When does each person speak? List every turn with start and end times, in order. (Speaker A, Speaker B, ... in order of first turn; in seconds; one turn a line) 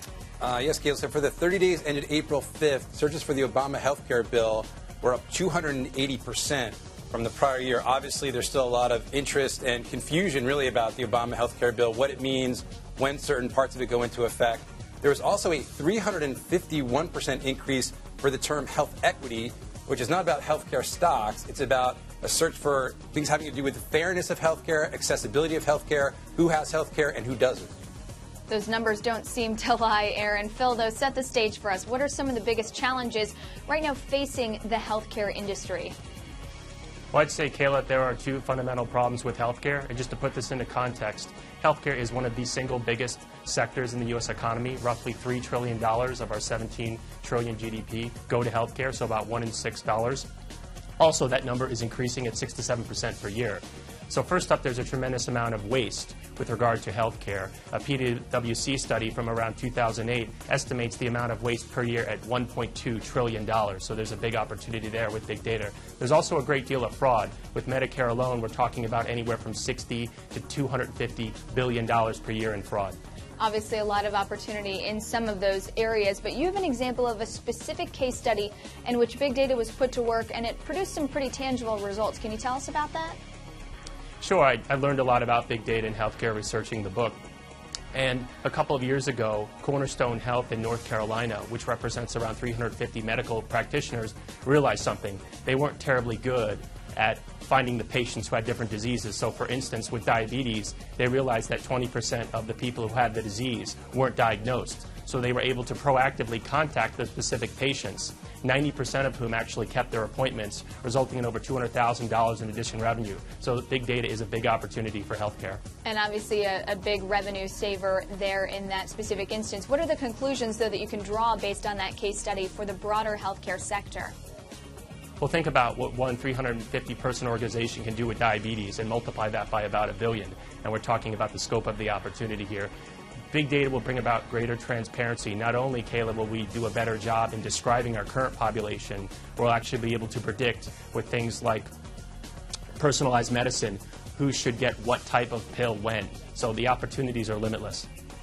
Speaker A: 0.4-27.7
Speaker B: 28.5-36.0
Speaker C: 37.1-50.3
Speaker C: 51.0-73.0
Speaker B: 73.4-83.2
Speaker C: 84.2-87.2
Speaker C: 87.9-115.6
Speaker B: 115.8-124.1
Speaker C: 125.2-132.7
Speaker C: 133.3-141.7
Speaker C: 142.8-147.9